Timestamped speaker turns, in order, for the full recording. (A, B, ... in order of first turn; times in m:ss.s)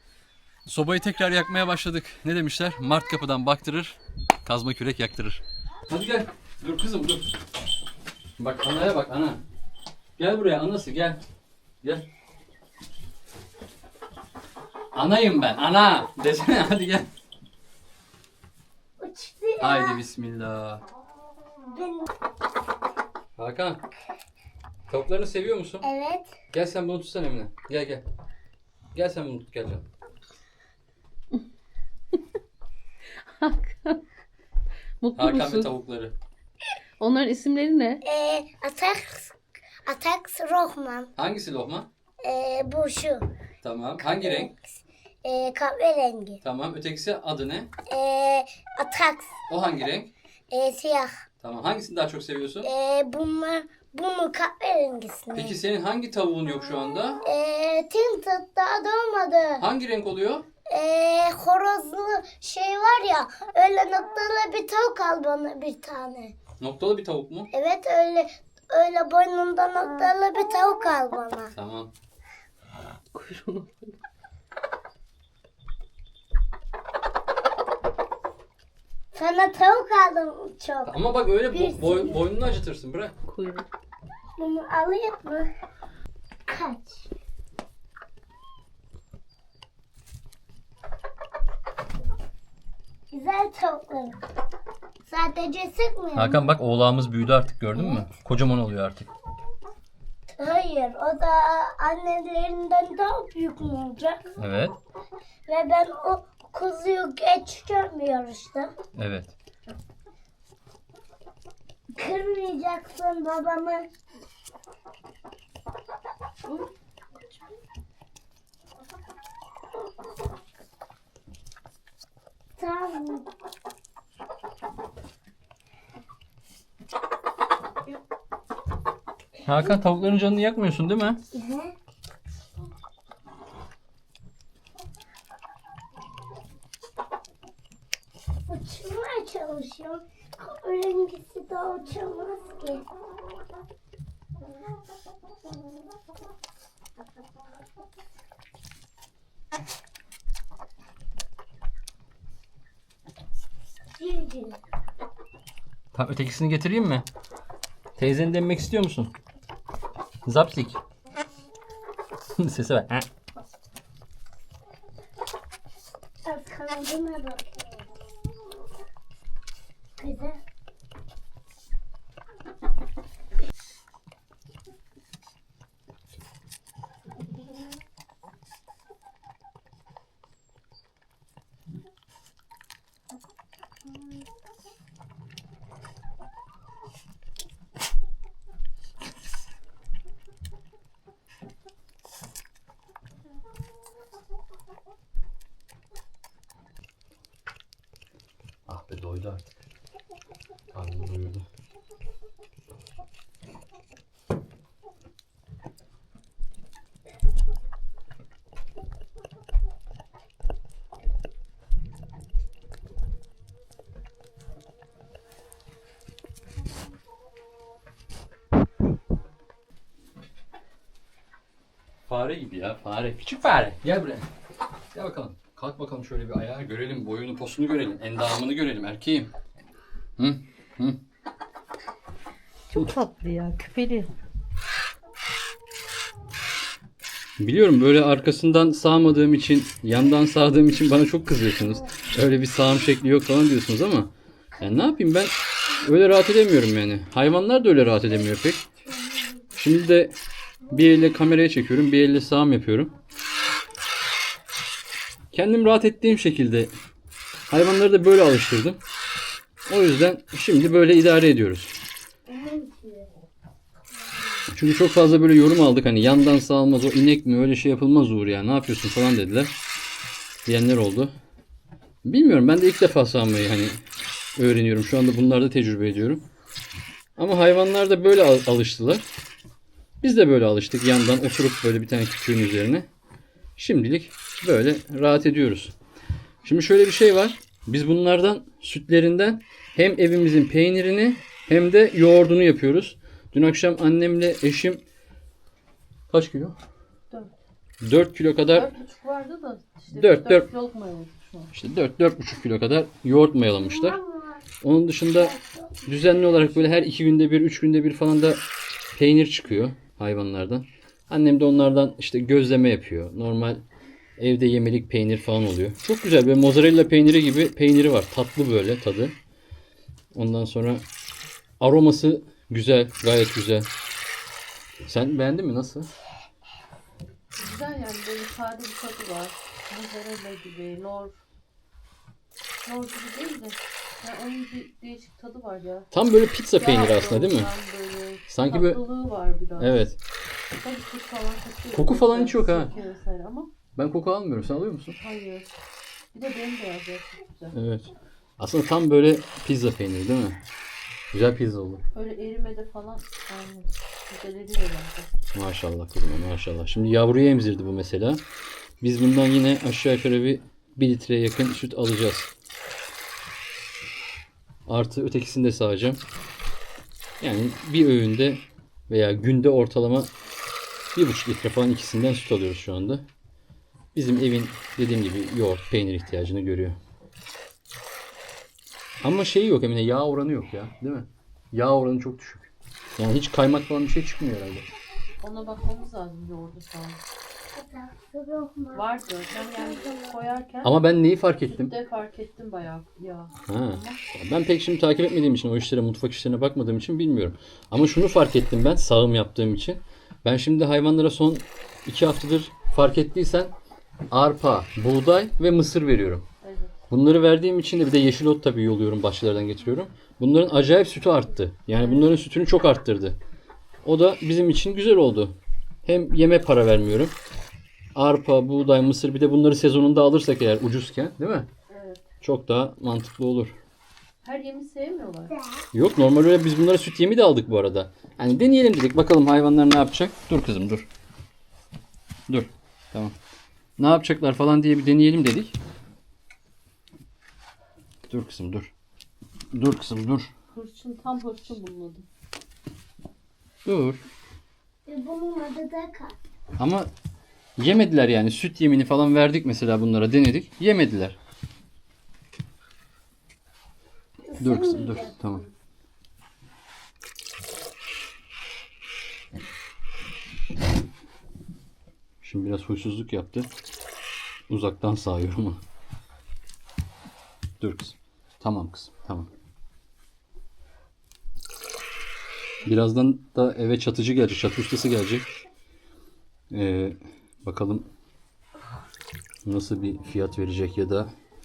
0:00.7-0:07.3 A
0:08.4-0:09.4 A
0:10.2-0:11.2 A
0:14.9-0:17.1 A
0:19.0-0:20.0 B
0:19.6-0:20.8 A
0:21.6-0:22.1 B
0:23.4-0:23.8 A
0:24.9-0:25.8 A
0:25.8-0:26.3 B
0:26.5-0:28.0 A
0:28.9-0:29.9 A
0:33.4-0:34.0 C
0:35.0-0:35.7 C
0:35.1-0:36.1 A
0:37.0-0:38.0 C
0:38.0-0:41.1 B
0:41.2-0:41.9 A
0:42.2-0:43.3 B
0:43.6-0:44.5 A
0:44.0-0:46.4 B
0:46.4-0:47.7 A
0:47.9-0:49.4 B
0:49.5-0:50.1 A
0:50.5-0:51.1 B
0:51.4-0:52.7 A
0:52.6-0:55.6 B
0:55.3-0:57.2 A
0:57.2-0:59.6 B
0:59.6-1:00.5 A
1:00.7-1:06.4 B
1:06.6-1:07.5 A
1:07.5-1:11.5 B
1:11.5-1:11.9 A
1:13.1-1:13.9 C
1:19.1-1:21.0 B
1:20.9-1:23.1 A
1:21.5-1:22.2 B
1:23.2-1:23.7 C
1:24.4-1:25.5 B
1:26.4-1:27.1 B
1:33.1-1:34.2 B
1:35.0-1:36.4 B
1:36.2-1:39.1 A
1:37.7-1:38.0 B
1:40.4-1:44.4 B
1:44.4-1:44.8 A
1:45.5-1:48.7 B
1:48.9-1:49.4 A
1:51.9-1:53.9 B
2:02.6-2:03.3 B
2:09.4-2:11.2 A
2:11.3-2:11.8 B
2:18.5-2:22.9 B
2:34.0-2:34.6 B
2:35.9-2:37.1 A
2:38.0-2:39.1 A
2:40.2-2:40.8 A
2:42.4-2:43.1 A
2:46.2-2:47.9 B
2:50.0-2:50.4 B
3:18.7-3:19.5 A
3:20.7-3:21.4 A
3:42.1-3:44.2 A
3:44.9-3:49.3 A
3:50.2-3:51.0 A
3:52.7-3:54.1 C
3:57.4-4:08.6 A
4:08.9-4:09.4 B
4:09.6-4:10.2 A
4:10.7-4:12.9 A
4:15.3-4:16.7 A
4:17.5-4:18.8 A
4:19.7-4:21.7 A
4:22.3-4:23.1 B
4:24.5-4:29.5 A
4:30.5-4:31.1 A
4:32.0-4:33.8 A
4:34.4-4:36.2 A
4:37.2-4:39.0 A
4:40.0-4:42.9 A
4:43.6-4:45.7 A
4:46.4-4:54.8 A
4:56.1-4:56.6 A
4:57.8-4:58.7 A
4:58.5-5:01.5 C
4:59.9-5:00.5 A
5:01.5-5:04.0 A
5:03.5-5:04.4 B
5:04.6-5:08.4 A
5:05.1-5:05.8 B
5:08.9-5:13.6 A
5:14.2-5:19.1 A
5:20.1-5:20.8 A
5:21.6-5:23.7 A
5:24.9-5:25.9 A
5:27.4-5:31.2 C
5:32.6-5:35.9 C
5:35.9-5:37.5 A
5:36.6-5:39.8 C
5:38.3-5:38.8 A
5:39.6-5:40.0 A
5:40.5-5:43.5 C
5:41.7-5:42.7 A
5:43.8-5:45.0 A
5:45.0-5:45.5 C
5:46.1-5:47.5 C
5:47.5-5:50.4 A
5:51.1-5:51.8 A
5:51.9-5:55.1 C
5:55.3-5:58.2 A
5:58.8-6:02.3 A
6:04.6-6:06.0 A
6:07.2-6:10.1 A
6:11.0-6:13.1 A
6:13.9-6:16.8 A
6:19.0-6:24.6 A
6:25.2-6:27.0 C
6:27.5-6:30.2 B
6:28.7-6:30.7 C
6:30.6-6:31.7 A
6:31.5-6:34.0 C
6:33.5-6:43.5 A
6:44.1-6:46.2 A
6:46.4-6:46.7 C
6:46.9-6:53.2 A
6:51.8-6:52.1 C
6:53.8-6:57.1 A
6:58.0-7:01.5 A
7:01.7-7:02.0 C
7:02.2-7:03.6 A
7:04.2-7:05.3 C
7:05.3-7:05.6 B
7:05.7-7:10.9 A
7:12.3-7:13.1 A
7:13.8-7:15.6 A
7:18.1-7:18.7 A
7:19.5-7:20.3 A
7:20.5-7:22.1 C
7:23.6-7:24.0 A
7:24.9-7:26.2 B
7:26.6-7:26.9 A
7:27.6-7:31.2 A
7:34.3-7:35.2 B
7:34.4-7:35.5 A
7:42.2-7:43.5 A
7:44.5-7:45.6 A
7:47.6-7:49.3 A
7:52.6-7:55.3 A
7:56.5-7:57.9 A
7:59.4-8:01.1 A